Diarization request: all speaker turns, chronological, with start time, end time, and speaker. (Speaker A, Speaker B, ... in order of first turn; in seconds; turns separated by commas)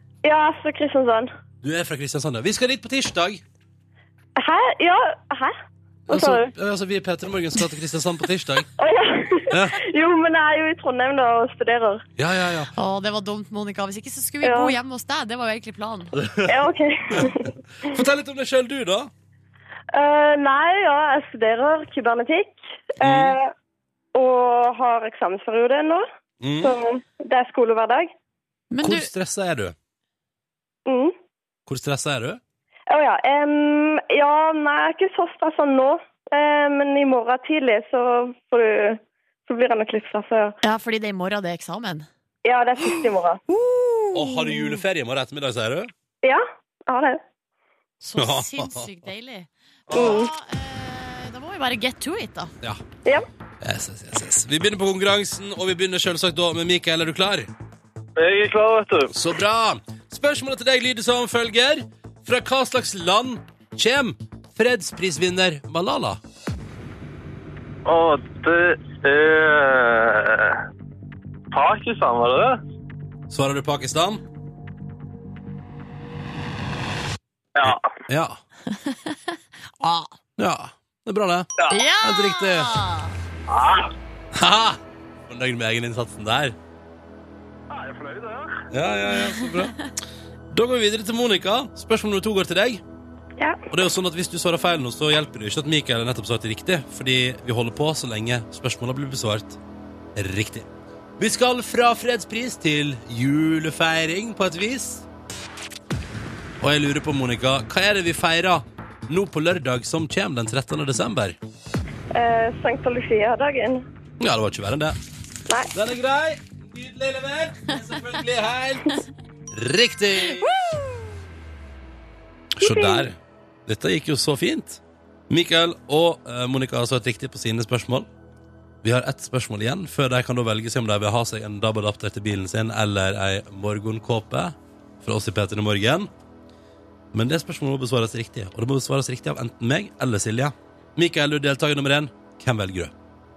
Speaker A: 0.2-1.3, Speaker B: 1.6-3.4, Speaker A: 4.4-5.5, Speaker B: 6.1-8.7, Speaker A: 6.1-6.5, Speaker A: 8.8-12.0, Speaker B: 9.5-9.8, Speaker B: 12.2-12.7, Speaker C: 12.7-16.1, Speaker A: 14.4-14.8, Speaker B: 16.2-19.1, Speaker A: 16.5-17.5, Speaker A: 19.9-23.5, Speaker B: 23.0-23.4, Speaker A: 24.1-26.1, Speaker B: 26.4-26.8, Speaker A: 26.6-28.1, Speaker C: 28.7-29.1, Speaker B: 28.8-29.7, Speaker A: 30.9-31.1, Speaker B: 31.6-32.4, Speaker A: 32.9-40.5, Speaker C: 40.6-42.1, Speaker A: 42.4-43.4, Speaker C: 42.8-44.8, Speaker B: 44.1-45.9, Speaker A: 46.2-47.2, Speaker C: 48.0-52.5, Speaker B: 48.2-48.9, Speaker B: 49.9-50.2, Speaker A: 49.9-50.3, Speaker B: 53.6-57.5, Speaker D: 58.2-59.1, Speaker B: 59.1-66.2, Speaker D: 67.8-70.6, Speaker D: 71.5-72.6, Speaker B: 73.3-74.2, Speaker D: 77.6-77.9, Speaker B: 77.6-78.4, Speaker C: 78.7-79.2, Speaker C: 79.8-80.1, Speaker B: 80.4-81.5, Speaker C: 81.7-83.2, Speaker B: 82.0-82.7, Speaker D: 83.5-83.9, Speaker B: 84.3-86.5, Speaker D: 87.7-88.6, Speaker B: 88.7-89.9, Speaker C: 89.4-89.8, Speaker B: 90.5-92.8, Speaker B: 93.7-99.6, Speaker B: 100.2-100.7, Speaker B: 101.2-105.0, Speaker B: 106.6-111.4, Speaker A: 112.1-113.8, Speaker B: 114.2-115.0, Speaker B: 115.7-120.5, Speaker C: 120.3-121.2, Speaker B: 122.6-128.1, Speaker A: 122.6-123.1, Speaker B: 128.8-136.1, Speaker B: 137.1-142.9